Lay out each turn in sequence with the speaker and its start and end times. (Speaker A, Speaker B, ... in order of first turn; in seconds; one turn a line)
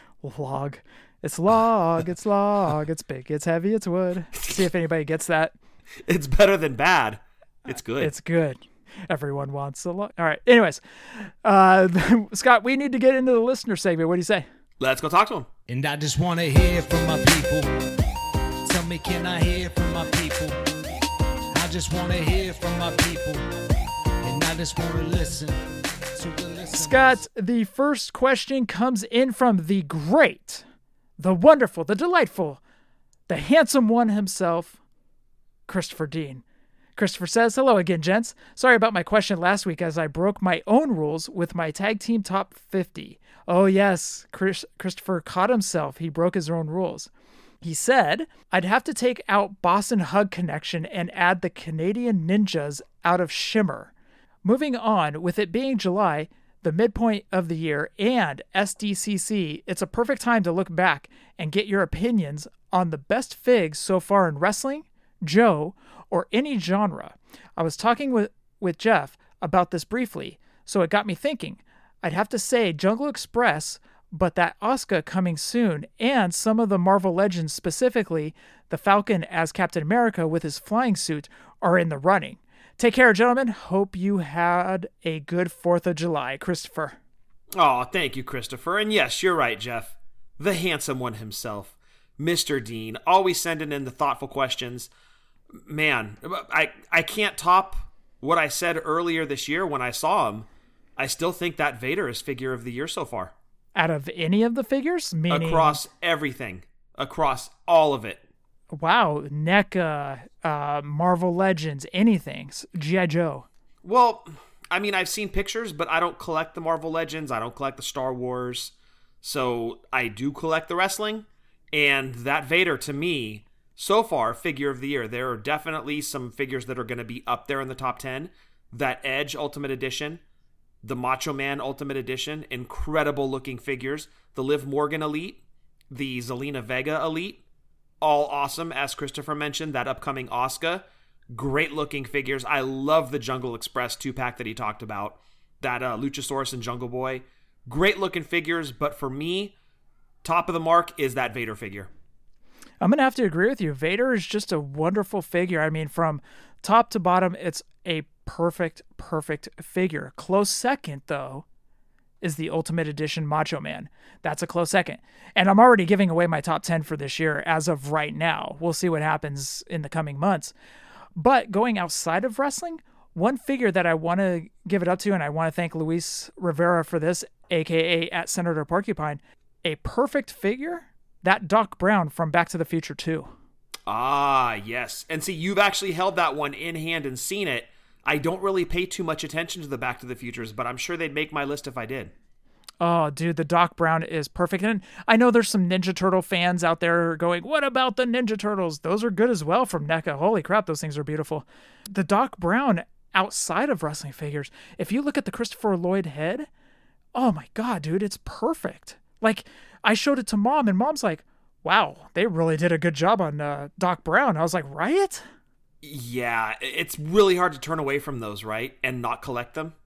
Speaker A: 0.2-5.5
Speaker B: 6.1-8.1
Speaker A: 8.0-14.4
Speaker B: 14.8-15.5
Speaker C: 15.7-17.7
Speaker C: 18.6-20.6
Speaker C: 21.5-23.4
Speaker C: 24.2-25.6
Speaker C: 26.1-27.2
Speaker A: 26.8-30.6
Speaker A: 31.2-32.6
Speaker A: 33.3-34.8
Speaker A: 35.7-36.4
Speaker A: 37.0-47.1
Speaker A: 47.6-53.9
Speaker A: 54.4-87.0
Speaker B: 87.5-94.9
Speaker B: 95.6-103.3
Speaker A: 103.7-105.8
Speaker B: 105.3-108.2
Speaker A: 108.7-113.5
Speaker B: 113.8-130.2
Speaker B: 130.8-137.4
Speaker B: 138.0-149.5
Speaker B: 150.2-151.9
Speaker A: 152.8-161.4
Speaker A: 162.2-170.5
Speaker A: 171.2-183.3
Speaker B: 183.9-192.1
Speaker A: 192.8-206.5
Speaker A: 207.1-215.2
Speaker B: 215.8-219.7